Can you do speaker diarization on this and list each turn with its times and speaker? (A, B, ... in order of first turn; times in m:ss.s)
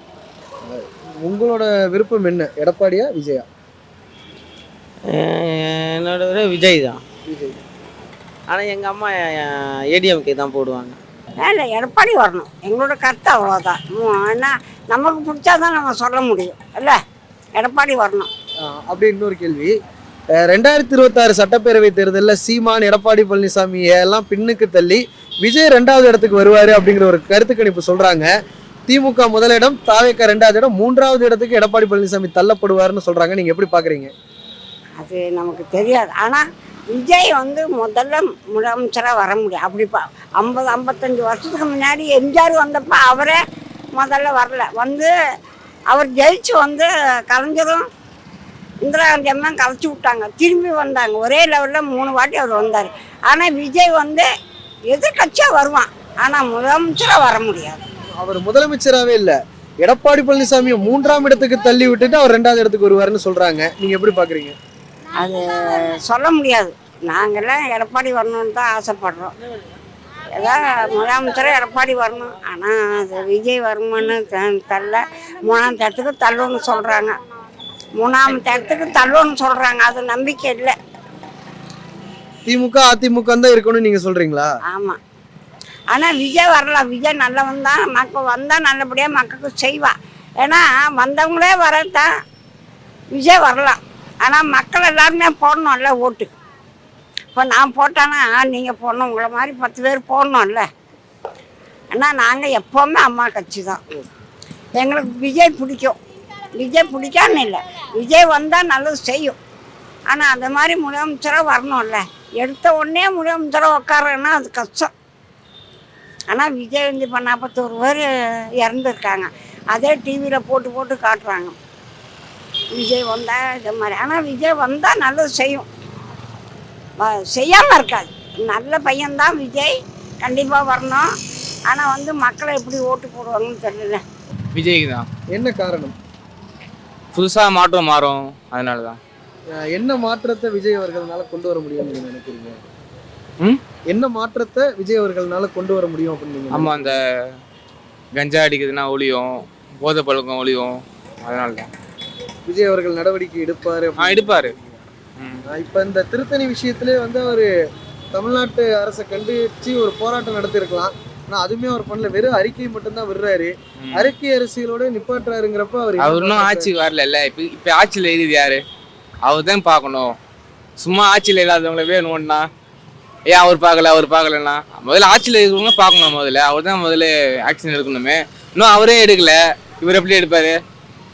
0:00.7-0:03.5 A
0:05.2-0:07.0 B
0:07.3-0:07.6 A
0:08.5-0:11.0 B
0:11.4-0:17.0 C
0:17.6-0:18.3 C
0:18.6-0:19.8 A
0:20.4-0:28.3 A
0:28.9-0:34.1 A
0:35.0-0:43.4 C
0:44.0-0:45.1 C
0:45.9-0:47.9 C
0:48.8-0:54.3 C
0:54.9-0:57.8 C
0:58.1-1:04.6 A
1:05.2-1:09.3 C
1:10.4-1:17.2 C
1:18.0-1:20.8 C
1:22.5-1:24.5 A
1:24.7-1:25.0 C
1:25.9-1:32.1 C
1:33.1-1:36.3 C
1:37.4-1:40.7 C
1:41.9-1:43.8 C
1:44.8-1:46.0 C
1:46.6-1:49.4 C
1:50.1-1:54.9 C
1:56.3-1:58.1 C
1:58.6-2:01.6 C
2:02.8-2:05.7 C
2:07.0-2:11.1 C
2:11.7-2:14.0 C
2:14.5-2:15.1 D
2:15.3-2:16.0 A
2:17.1-2:19.0 D
2:19.5-2:22.6 A
2:23.9-2:26.9 A
2:26.5-2:27.0 D
2:28.2-2:31.7 D
2:32.5-2:34.4 A
2:34.0-2:34.6 D
2:35.5-2:37.5 A
2:38.1-2:46.7 A
2:46.0-2:48.6 D
2:49.2-2:50.1 D
2:50.8-2:52.5 D
2:53.3-3:00.6 D